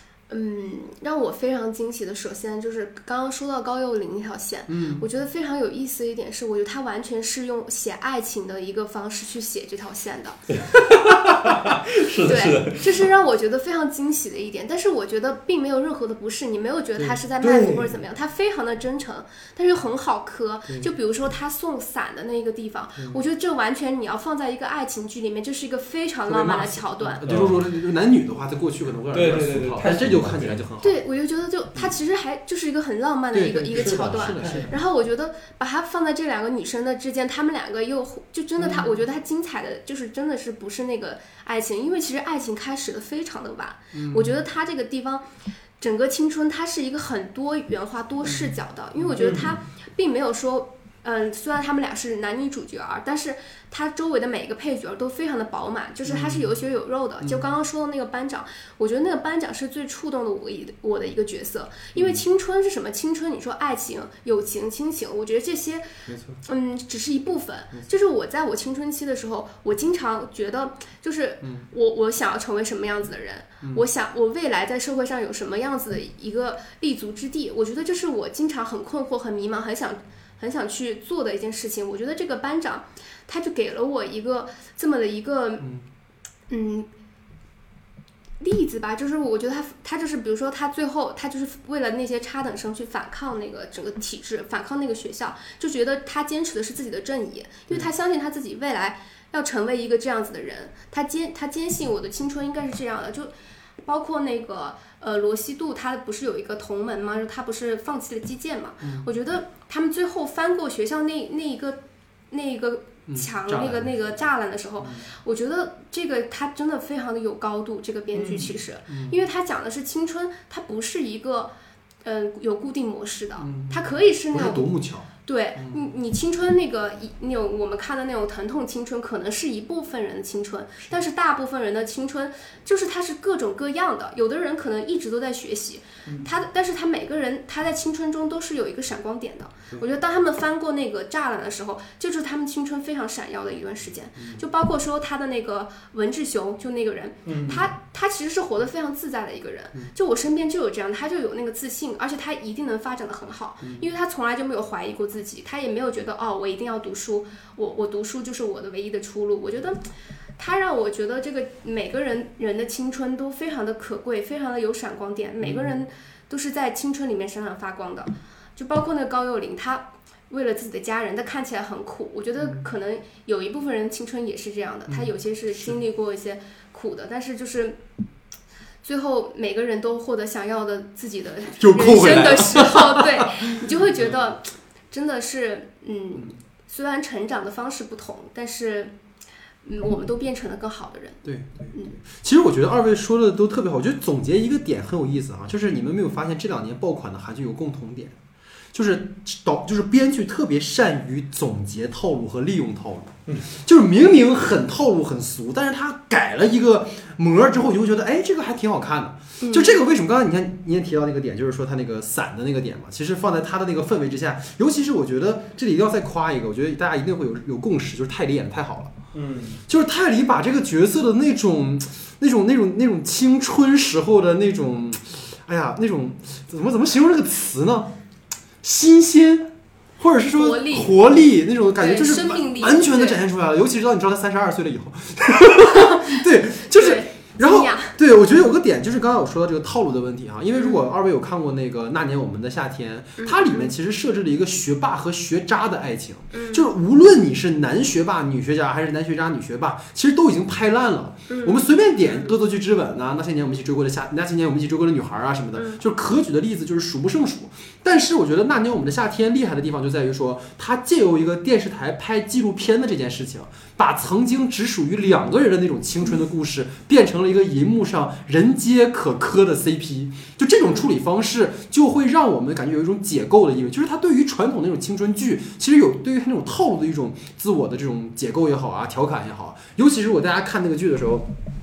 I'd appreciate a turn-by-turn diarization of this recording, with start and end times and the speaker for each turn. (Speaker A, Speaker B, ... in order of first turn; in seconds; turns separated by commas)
Speaker A: 0.3-10.4, Speaker B: 4.7-5.0, Speaker C: 10.6-13.1, Speaker A: 11.4-11.7, Speaker A: 12.2-27.3, Speaker C: 17.4-17.9, Speaker B: 26.3-31.0, Speaker C: 27.2-27.6, Speaker C: 29.1-30.6, Speaker A: 30.8-45.3, Speaker B: 33.3-34.7, Speaker C: 33.7-34.7, Speaker B: 43.9-44.4, Speaker A: 45.8-65.8, Speaker B: 48.2-49.6, Speaker C: 49.2-49.5, Speaker B: 56.0-56.5, Speaker B: 62.0-62.2, Speaker B: 66.1-66.4, Speaker A: 66.4-85.7, Speaker B: 71.4-71.7, Speaker A: 86.5-86.9, Speaker A: 88.4-111.8, Speaker B: 108.8-109.1, Speaker A: 112.3-121.5, Speaker B: 113.1-114.2, Speaker B: 114.8-115.1, Speaker C: 118.2-118.5, Speaker B: 118.9-119.2, Speaker A: 122.0-124.7, Speaker B: 123.4-125.9, Speaker A: 125.2-159.8, Speaker B: 144.2-144.4, Speaker C: 147.3-147.6, Speaker B: 153.6-153.9, Speaker A: 160.4-177.8, Speaker B: 165.4-165.8, Speaker B: 174.9-175.8, Speaker A: 178.8-188.9, Speaker B: 181.6-183.7, Speaker A: 189.6-192.0, Speaker B: 191.2-198.2, Speaker B: 198.7-218.9, Speaker A: 209.4-209.8, Speaker C: 219.1-219.6, Speaker B: 219.7-227.9, Speaker B: 228.6-281.3, Speaker A: 230.3-231.0, Speaker A: 231.8-233.2, Speaker A: 235.6-238.0, Speaker A: 240.5-240.8, Speaker A: 243.2-243.7, Speaker A: 246.3-246.6, Speaker A: 251.3-251.7, Speaker A: 255.6-255.8